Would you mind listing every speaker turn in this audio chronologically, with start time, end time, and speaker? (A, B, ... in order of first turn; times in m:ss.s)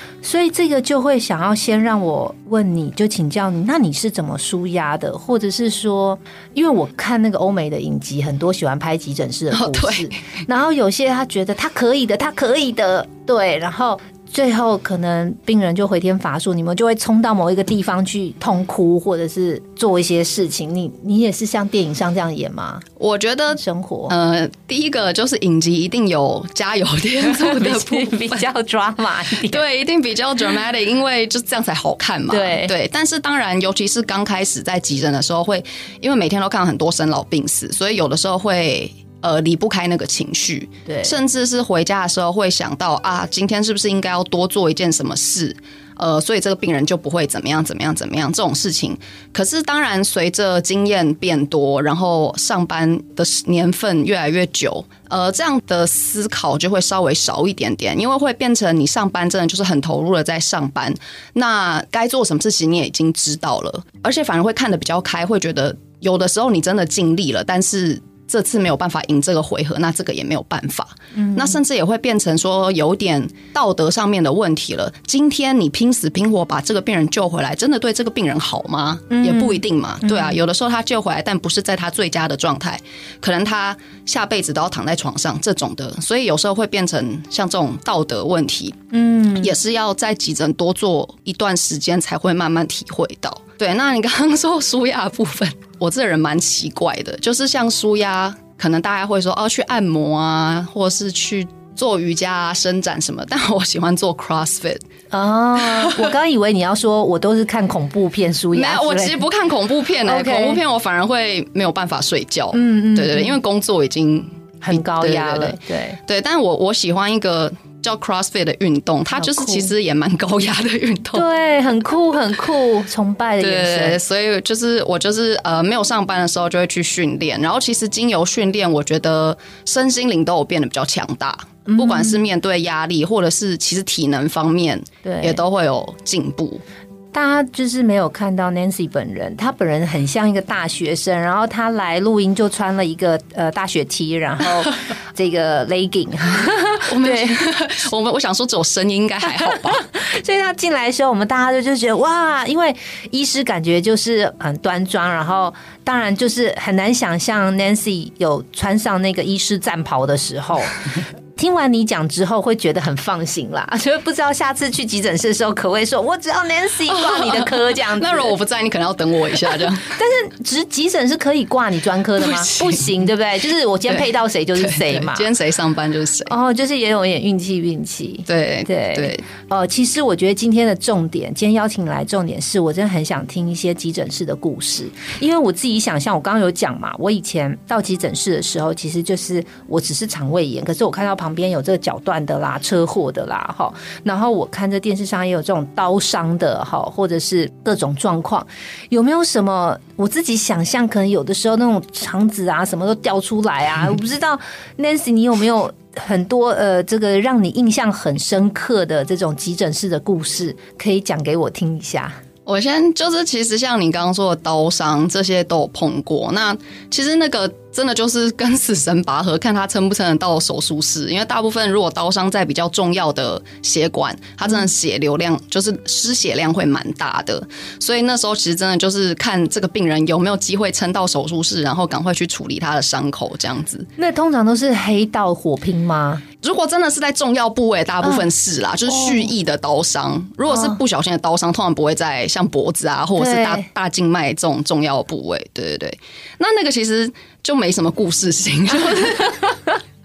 0:00.2-0:22.8 A
0:09.5-0:10.2 B
0:23.0-0:28.4 B
0:23.5-0:24.1 A
0:27.2-0:29.6 A
0:29.4-1:28.8 B
0:32.3-0:32.7 A
0:40.8-0:41.2 A
1:11.1-1:11.6 A
1:19.1-1:20.4 A
1:28.9-1:29.5 A
1:29.4-1:44.8 B
1:45.1-1:49.2 A
1:45.6-1:46.1 B
1:48.5-2:01.2 B
1:50.0-1:50.6 A
1:52.5-1:53.4 A
1:54.6-1:56.0 A
1:59.2-1:59.7 A
2:01.1-2:04.0 A
2:03.4-2:16.6 B
2:11.6-2:12.2 A
2:15.0-2:15.4 A
2:17.1-2:27.4 A
2:26.9-2:29.9 B
2:29.2-2:40.8 A
2:41.4-2:48.4 A
2:46.9-2:49.8 B
2:49.8-2:55.3 A
2:52.2-2:52.9 B
2:53.9-2:56.3 B
2:56.3-3:32.2 A
2:58.3-2:59.2 B
3:32.4-3:53.9 B
3:54.0-3:56.2 A
3:56.4-4:09.5 B
3:58.9-3:59.3 A
4:00.5-4:00.8 A
4:03.2-4:03.7 A